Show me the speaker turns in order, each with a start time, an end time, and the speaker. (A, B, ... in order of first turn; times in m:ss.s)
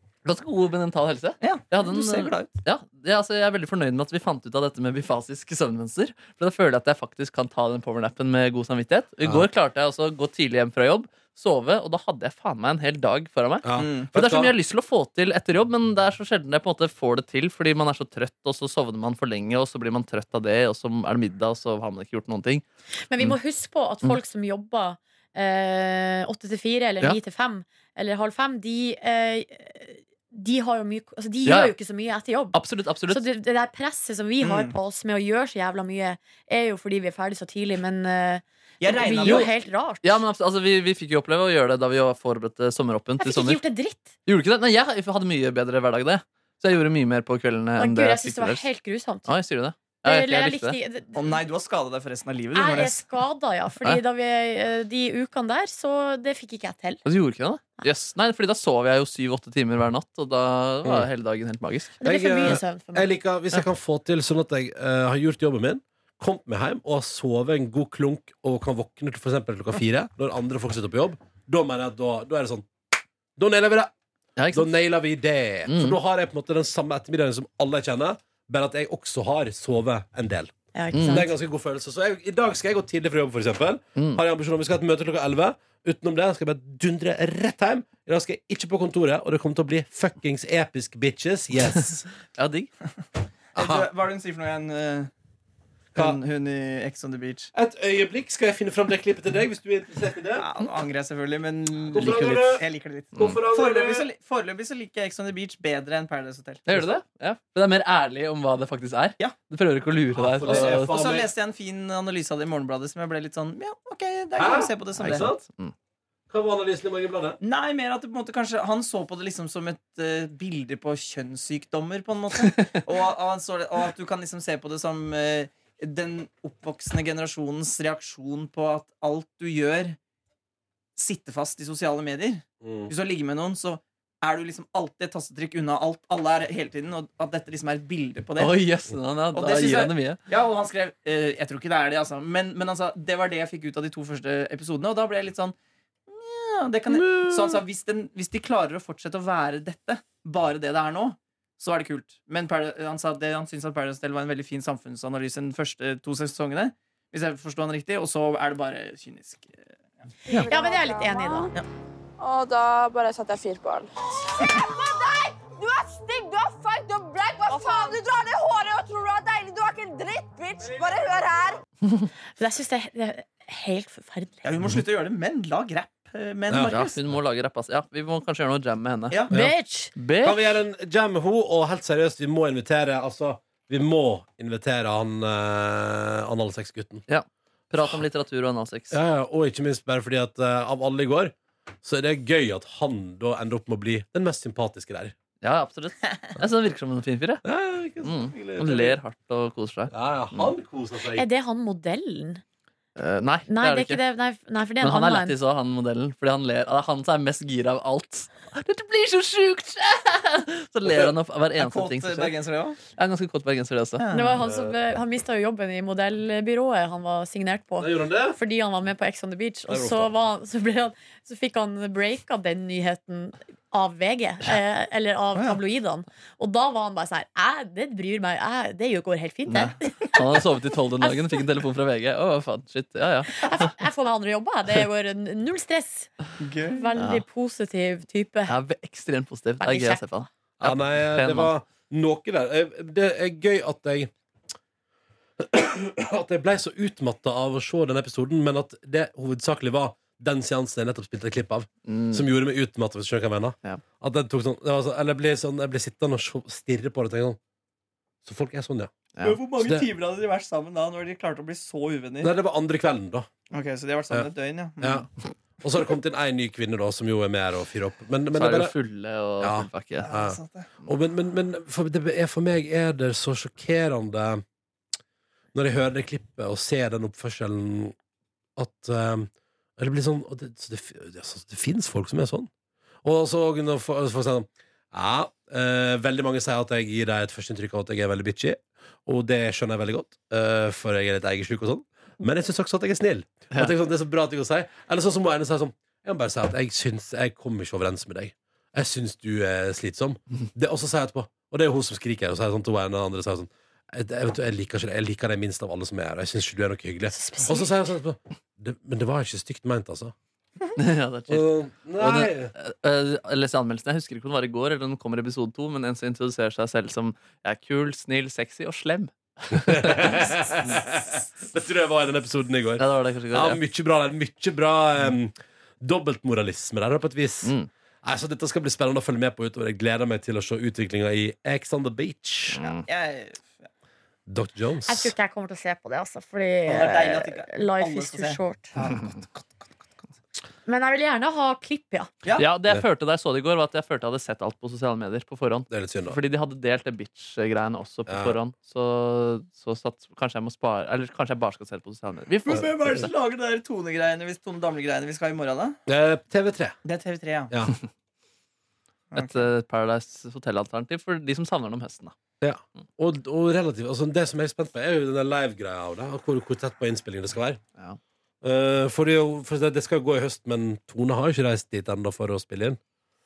0:00.2-0:22.6 A
0:01.4-0:02.5 B
0:13.6-0:14.5 C
0:13.8-0:14.1 B
0:23.1-0:40.2 D
0:31.5-0:31.7 A
0:32.5-0:33.2 A
0:34.4-0:34.7 B
0:38.8-0:39.5 B
0:39.2-0:39.5 A
0:40.0-0:43.6 A
0:43.2-0:44.1 D
0:44.3-0:48.6 A
0:47.8-0:49.3 D
0:49.3-0:50.8 A
0:50.0-0:51.4 D
0:51.2-0:53.0 B
0:52.5-0:57.0 D
0:57.1-1:01.9 A
1:02.0-1:03.1 D
1:02.0-1:12.7 C
1:13.4-1:13.9 C
1:14.4-1:14.8 A
1:14.5-1:32.1 C
1:15.7-1:16.0 A
1:20.8-1:21.3 D
1:20.9-1:21.3 A
1:24.0-1:24.2 A
1:32.4-1:32.7 A
1:33.6-1:35.1 B
1:33.6-1:33.9 C
1:36.0-1:36.2 C
1:36.0-1:37.5 B
1:37.5-1:40.5 C
1:40.4-1:46.8 B
1:41.9-1:44.1 C
1:41.9-1:42.6 A
1:46.7-1:51.0 A
1:50.2-1:51.3 C
1:50.4-1:55.3 B
1:54.4-1:55.4 C
1:55.0-1:55.7 A
1:56.3-1:57.4 C
1:57.4-2:10.0 B
2:02.4-2:02.8 A
2:11.0-2:18.5 B
2:12.6-2:12.9 C
2:18.4-2:20.2 A
2:19.3-2:25.6 B
2:26.1-2:40.0 B
2:26.9-2:27.6 C
2:40.3-2:41.5 E
2:40.3-2:41.5 D
2:42.2-2:51.6 E
2:47.5-2:47.9 D
2:52.4-2:54.5 D
2:54.4-2:57.0 B
2:56.5-2:56.7 C
2:56.6-2:59.3 A
2:59.3-2:59.9 D
3:00.0-3:00.4 A
3:00.2-3:07.0 C
3:07.1-3:09.0 A
3:08.9-3:15.2 C
3:15.4-3:17.4 A
3:17.4-3:19.0 C
3:18.0-3:20.5 A
3:19.9-3:21.3 C
3:21.1-3:22.4 D
3:23.0-3:24.0 A
3:23.5-3:25.4 D
3:24.8-3:32.4 A
3:31.6-3:32.8 B
3:32.9-3:34.1 A
3:34.0-3:34.4 B
3:34.1-3:50.2 D
3:34.4-3:34.8 C
3:37.8-3:38.4 C
3:39.7-3:40.1 C
3:49.5-3:53.7 A
3:51.0-3:51.4 D
3:53.4-3:56.1 D
3:56.4-3:56.9 B
3:56.7-3:58.6 D
3:57.0-3:57.2 A
3:58.5-4:01.5 A
3:59.6-4:00.0 D
4:00.6-4:04.1 C
4:05.4-4:17.4 C
4:11.9-4:12.3 A
4:18.2-4:18.9 C
4:19.2-4:22.3 B
4:19.6-4:19.9 C
4:22.2-4:23.3 C
4:23.5-4:25.1 B
4:24.8-4:25.1 C
4:25.6-4:28.7 C
4:28.3-4:30.1 A
4:29.4-4:34.4 C
4:30.0-4:30.7 B
4:35.5-4:38.0 C
4:38.6-4:42.5 C
4:43.0-5:10.1 C
5:07.1-5:07.7 D
5:10.8-5:20.7 A
5:11.3-5:12.5 C
5:19.6-5:32.6 C
5:22.8-5:23.6 A
5:27.4-5:27.7 A
5:32.5-5:32.8 A
5:32.8-5:33.7 B
5:34.3-5:35.1 C
5:34.9-5:38.7 D
5:36.7-5:39.4 B
5:40.7-5:42.1 D
5:42.4-5:52.7 A
5:45.7-5:46.2 C
5:48.1-5:48.4 C
5:52.5-5:55.8 B
5:55.9-5:56.8 C
5:56.8-5:57.5 B
5:57.5-5:57.8 C
5:59.1-5:59.5 B
5:59.2-6:02.2 A
6:02.4-6:07.6 C
6:08.4-6:12.8 C